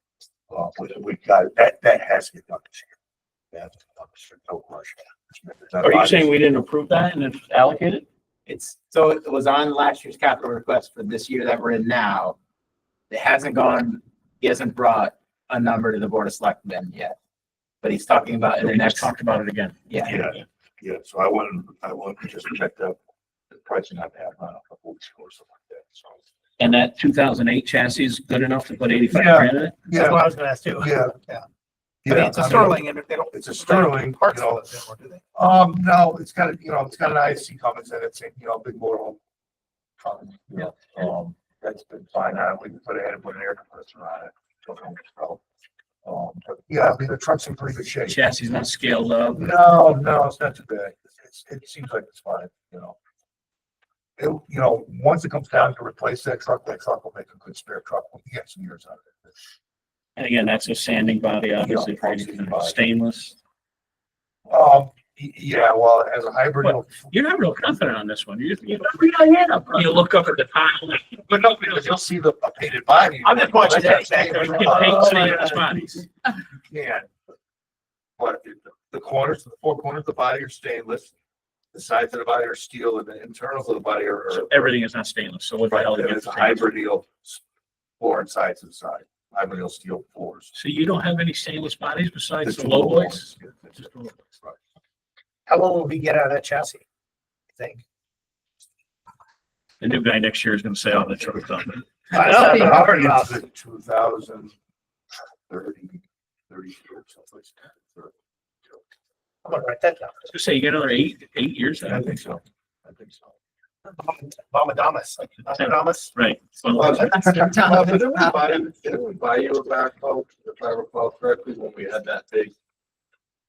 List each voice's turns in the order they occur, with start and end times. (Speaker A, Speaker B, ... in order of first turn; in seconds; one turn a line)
Speaker A: 0.5-2.9
Speaker A: 3.5-6.3
Speaker B: 5.8-8.1
Speaker C: 8.5-12.4
Speaker C: 13.1-17.2
Speaker C: 17.8-19.1
Speaker B: 18.6-19.8
Speaker C: 19.9-20.2
Speaker A: 20.0-23.0
Speaker A: 23.5-26.2
Speaker B: 26.6-29.8
Speaker A: 29.1-30.2
Speaker D: 29.9-31.5
Speaker A: 30.8-31.1
Speaker A: 32.0-34.7
Speaker D: 32.1-35.2
Speaker A: 35.4-39.2
Speaker A: 40.0-45.4
Speaker A: 46.0-48.3
Speaker B: 48.0-49.5
Speaker A: 49.3-53.0
Speaker A: 54.2-59.3
Speaker B: 60.2-63.4
Speaker A: 61.6-62.8
Speaker A: 64.5-67.1
Speaker B: 66.6-71.1
Speaker A: 71.1-75.7
Speaker C: 73.2-75.4
Speaker D: 74.0-74.4
Speaker B: 74.2-76.0
Speaker A: 76.7-77.1
Speaker A: 78.2-81.2
Speaker A: 81.7-84.7
Speaker B: 84.3-86.7
Speaker A: 85.7-87.4
Speaker A: 88.0-90.5
Speaker B: 90.5-93.3
Speaker A: 92.4-94.6
Speaker D: 95.5-96.8
Speaker D: 97.6-97.8
Speaker B: 99.8-101.8
Speaker A: 102.1-104.5
Speaker D: 102.1-103.3
Speaker A: 105.5-108.1
Speaker D: 109.5-110.2
Speaker B: 110.3-112.1
Speaker A: 111.8-113.3
Speaker D: 113.9-116.1
Speaker B: 115.5-117.4
Speaker A: 116.8-118.2
Speaker D: 116.8-118.2
Speaker E: 117.6-122.5